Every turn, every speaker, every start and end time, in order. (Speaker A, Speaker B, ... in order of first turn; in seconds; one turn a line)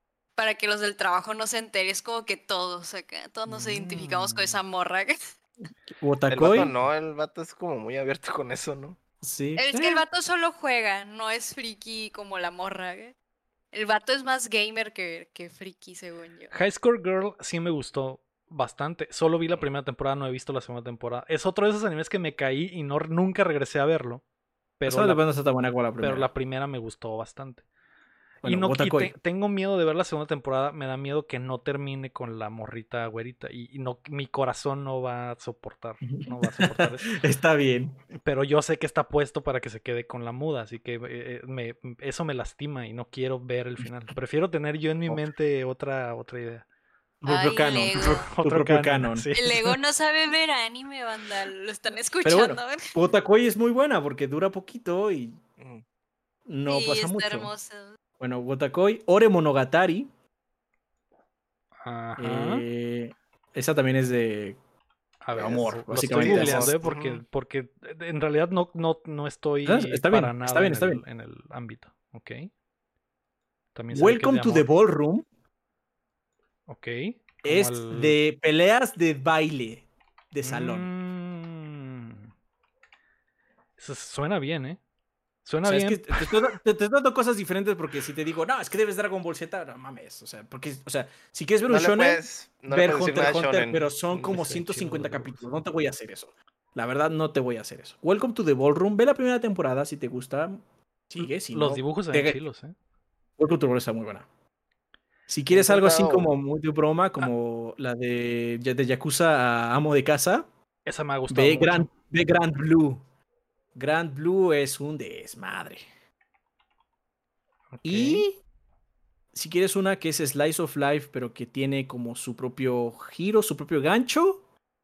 Speaker A: 0.3-5.4
Speaker B: 3.5-3.9
Speaker C: 3.9-4.6
Speaker B: 6.0-6.7
Speaker D: 6.3-9.0
Speaker B: 9.2-10.0
Speaker A: 9.6-13.1
Speaker A: 13.7-16.5
Speaker C: 16.5-24.2
Speaker C: 24.8-25.2
Speaker B: 24.9-26.3
Speaker C: 26.0-27.6
Speaker B: 28.4-29.1
Speaker C: 28.4-37.1
Speaker B: 36.0-38.0
Speaker C: 38.2-46.6
Speaker B: 47.2-49.3
Speaker A: 47.2-48.3
Speaker C: 48.0-49.7
Speaker A: 49.4-53.0
Speaker B: 52.2-55.4
Speaker D: 55.6-55.8
Speaker B: 56.5-57.5
Speaker A: 56.7-58.0
Speaker B: 58.2-60.1
Speaker C: 61.8-62.6
Speaker B: 62.2-64.6
Speaker C: 65.2-72.5
Speaker B: 65.3-67.0
Speaker D: 66.2-67.2
Speaker B: 69.6-71.0
Speaker C: 73.7-74.7
Speaker B: 73.9-75.2
Speaker C: 76.7-78.2
Speaker B: 77.4-80.9
Speaker C: 80.4-82.3
Speaker C: 83.8-84.8
Speaker C: 85.4-86.4
Speaker B: 85.6-102.4
Speaker D: 91.7-94.3
Speaker C: 94.2-95.5
Speaker C: 101.2-102.7
Speaker B: 103.4-104.2
Speaker B: 105.3-110.5
Speaker D: 105.5-106.3
Speaker C: 110.8-111.9
Speaker B: 111.3-113.0
Speaker B: 113.7-115.8
Speaker C: 117.7-118.2
Speaker B: 117.8-118.4
Speaker B: 119.3-124.4